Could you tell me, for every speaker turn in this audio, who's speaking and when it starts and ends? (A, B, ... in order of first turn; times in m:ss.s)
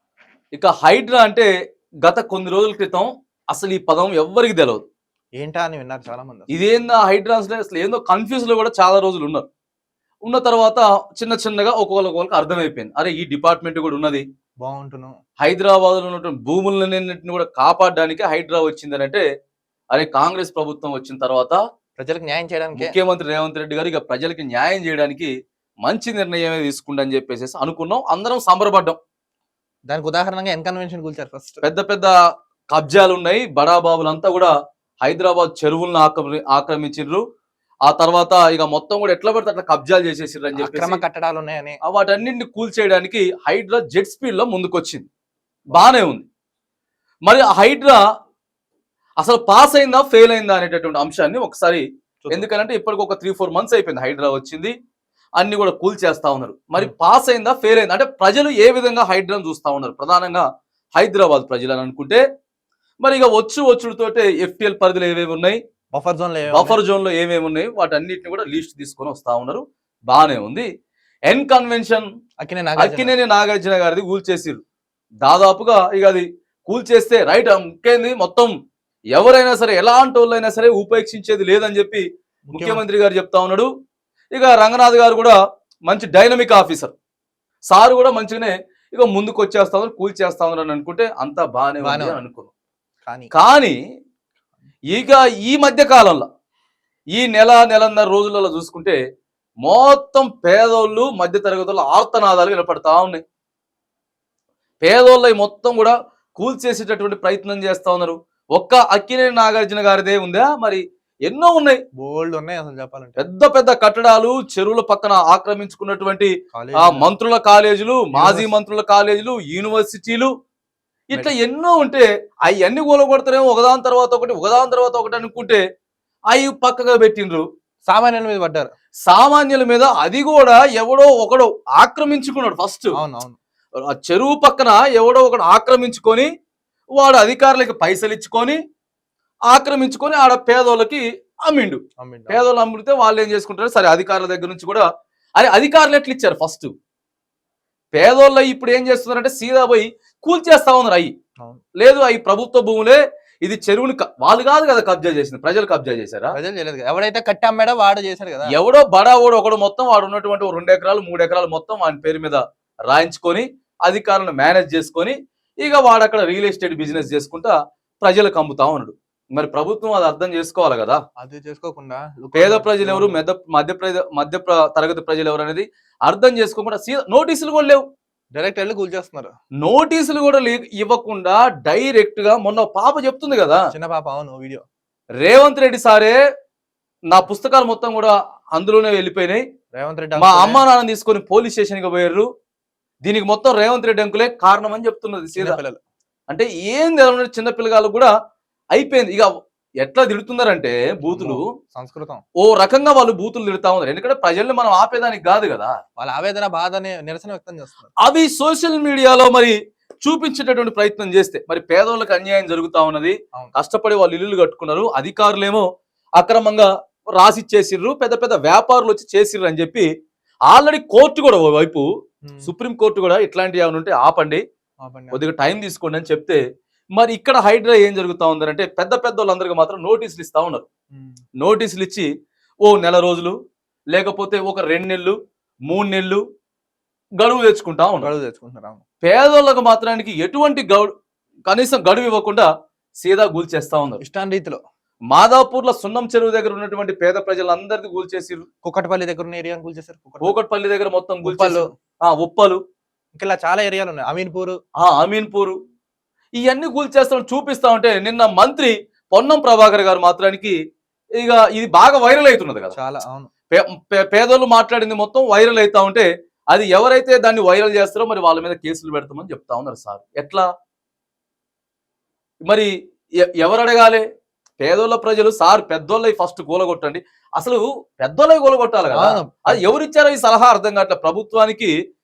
0:00.5-0:01.5 A
0:02.0-0:04.8 A
0:05.4-0:06.5 B
0:06.5-0:09.4 A
0:10.2-0:14.2 A
0:14.6-0:15.1 B
0:15.4-0:19.2 A
0:19.9-0:21.6 A
0:22.0-0:23.0 B
0:22.8-0:25.3 A
0:25.8-0:29.0 A
0:29.9-0:31.7 B
0:31.6-0:32.1 A
0:32.7-0:34.5 A
0:35.0-0:37.2 A
0:37.9-0:41.0 A
0:40.5-0:41.8 B
0:41.8-0:45.1 A
0:45.7-0:46.3 A
0:47.3-0:48.0 A
0:49.2-0:54.7 A
0:52.2-0:52.5 B
0:55.4-1:00.4 A
1:01.0-1:02.2 A
1:03.0-1:05.6 A
1:05.9-1:06.8 B
1:06.5-1:10.7 A
1:11.3-1:12.1 A
1:12.4-1:13.1 B
1:12.8-1:14.6 A
1:15.2-1:18.5 A
1:19.1-1:23.7 A
1:22.5-1:22.8 B
1:24.3-1:25.4 A
1:25.9-1:26.9 A
1:27.7-1:32.5 A
1:31.8-1:32.2 B
1:33.0-1:33.3 B
1:33.3-1:33.8 A
1:34.9-1:36.2 A
1:37.2-1:39.0 A
1:39.6-1:43.2 A
1:44.8-1:51.8 A
1:52.0-1:53.2 B
1:53.2-2:00.3 A
1:56.5-1:57.1 B
1:58.1-1:58.5 B
2:01.1-2:05.6 A
2:06.3-2:07.4 A
2:07.9-2:08.7 B
2:09.0-2:12.9 A
2:13.0-2:13.4 B
2:13.9-2:16.3 A
2:17.0-2:18.6 A
2:19.5-2:26.7 A
2:22.0-2:22.5 B
2:27.9-2:31.1 A
2:31.8-2:36.3 A
2:36.3-2:38.5 B
2:38.5-2:51.0 A
2:51.2-2:53.2 B
2:52.3-2:57.8 A
2:58.4-2:59.3 B
2:59.6-3:03.6 A
3:03.7-3:04.6 B
3:05.2-3:06.2 A
3:07.1-3:09.4 A
3:09.8-3:10.6 B
3:10.2-3:12.3 A
3:13.0-3:15.6 A
3:15.4-3:15.8 B
3:16.3-3:18.1 A
3:18.7-3:19.3 A
3:19.8-3:21.4 A
3:21.1-3:22.2 B
3:22.4-3:25.7 A
3:26.0-3:27.9 B
3:28.0-3:35.7 A
3:36.2-3:39.8 A
3:40.5-3:41.8 A
3:42.2-3:42.5 B
3:42.4-3:44.4 A
3:44.8-3:45.2 B
3:45.1-3:46.4 A
3:47.0-3:50.6 A
3:50.9-3:51.2 B
3:51.4-3:52.1 A
3:52.6-3:53.4 A
3:53.9-3:55.2 A
3:55.7-3:56.2 A
3:57.2-3:58.1 A
3:58.0-3:58.8 B
3:59.0-4:00.9 A
4:01.5-4:02.5 A
4:03.0-4:04.0 A
4:04.0-4:04.6 B
4:05.1-4:08.4 A
4:08.6-4:10.4 B
4:10.2-4:12.6 A
4:11.2-4:11.7 B
4:13.2-4:14.6 B
4:14.8-4:15.6 A
4:16.4-4:20.6 A
4:21.2-4:22.7 A
4:22.7-4:23.3 B
4:23.5-4:30.5 A
4:33.2-4:34.0 A
4:34.6-4:41.7 A
4:38.9-4:39.6 B